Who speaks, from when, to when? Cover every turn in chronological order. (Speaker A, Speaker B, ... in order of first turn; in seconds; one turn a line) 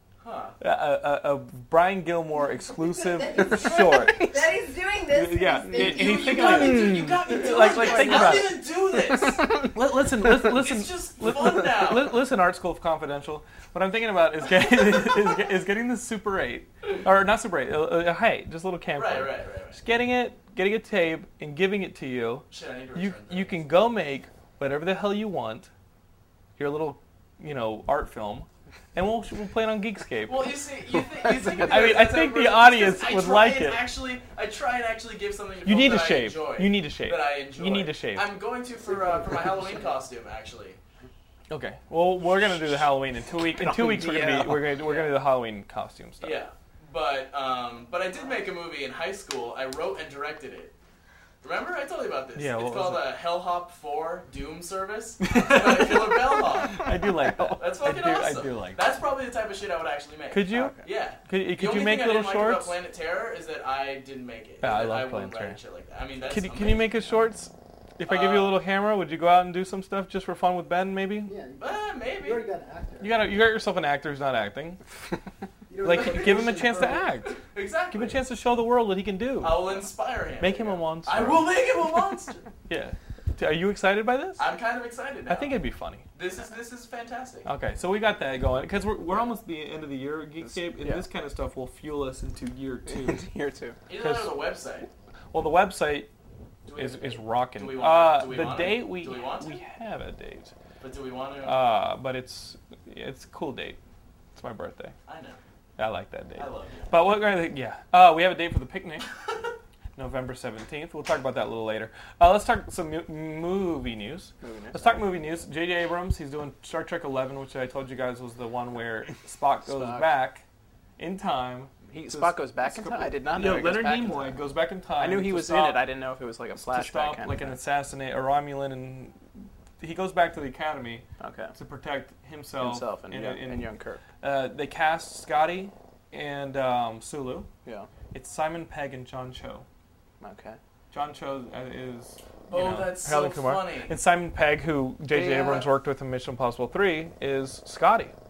Speaker A: 0.2-0.6
Speaker B: 0.6-4.4
Speaker C: 2.8-6.6
Speaker B: 5.1-8.6
Speaker A: 5.7-9.5
Speaker D: 6.4-8.5
Speaker B: 9.6-25.7
Speaker A: 10.4-12.2
Speaker A: 18.9-19.8
Speaker A: 22.5-23.6
Speaker B: 26.6-30.5
Speaker A: 30.2-40.8
Speaker D: 31.1-32.0
Speaker B: 31.6-33.8
Speaker B: 35.6-38.4
Speaker B: 41.5-46.4
Speaker D: 43.5-44.8
Speaker A: 44.8-45.1
Speaker A: 46.2-50.7
Speaker A: 51.4-56.9
Speaker B: 52.4-53.0
Speaker B: 55.2-58.8
Speaker A: 57.5-67.0
Speaker B: 60.3-62.8
Speaker D: 60.5-60.8
Speaker B: 64.6-65.6
Speaker B: 66.3-71.3
Speaker A: 68.0-68.6
Speaker E: 71.2-73.2
Speaker A: 71.6-72.5
Speaker B: 73.0-74.8
Speaker E: 75.7-77.1
Speaker B: 75.8-77.4
Speaker A: 76.0-76.4
Speaker A: 77.2-78.2
Speaker B: 77.9-79.7
Speaker A: 79.4-82.4
Speaker B: 80.4-81.5
Speaker B: 82.7-84.5
Speaker A: 84.4-85.6
Speaker B: 85.3-86.0
Speaker A: 86.1-87.5
Speaker B: 87.4-93.3
Speaker D: 90.4-91.1
Speaker D: 92.9-93.8
Speaker A: 93.9-94.9
Speaker B: 94.0-94.4
Speaker B: 95.3-96.1
Speaker A: 96.6-99.6
Speaker B: 96.8-100.5
Speaker A: 100.8-101.6
Speaker B: 101.4-103.8
Speaker B: 104.3-104.9
Speaker A: 105.1-105.4
Speaker B: 105.8-109.1
Speaker A: 106.4-107.2
Speaker B: 109.9-120.4
Speaker D: 114.4-115.1
Speaker D: 119.7-120.1
Speaker B: 121.0-125.8
Speaker D: 121.9-124.3
Speaker D: 125.0-127.6
Speaker B: 126.6-129.2
Speaker B: 129.8-133.7
Speaker D: 131.2-131.5
Speaker D: 132.6-134.0
Speaker B: 134.2-137.5
Speaker B: 138.1-139.7
Speaker D: 140.2-140.6
Speaker B: 140.9-148.1
Speaker A: 142.5-144.0
Speaker D: 145.1-145.7